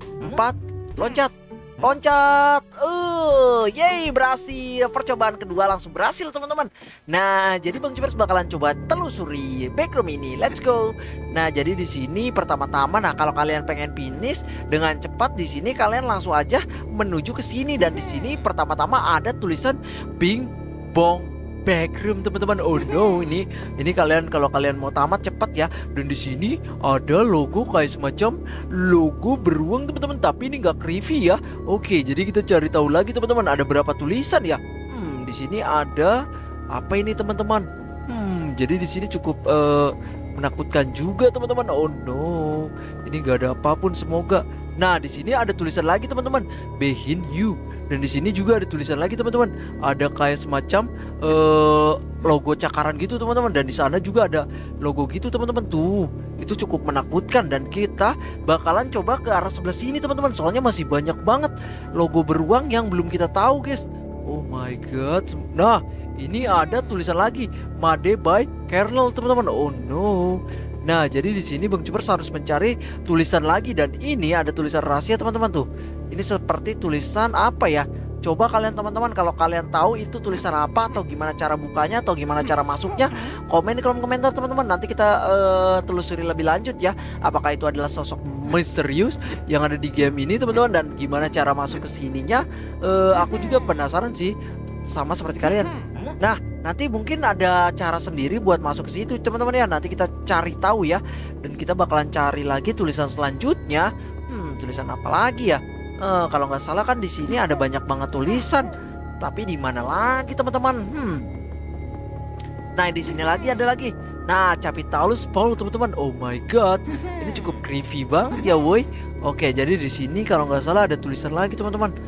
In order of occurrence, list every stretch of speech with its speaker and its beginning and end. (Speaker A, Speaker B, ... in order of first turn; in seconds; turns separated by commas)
Speaker A: 0.2-36.1, Speaker A: 36.7-94.3, Speaker A: 94.9-111.3, Speaker A: 112.8-121.9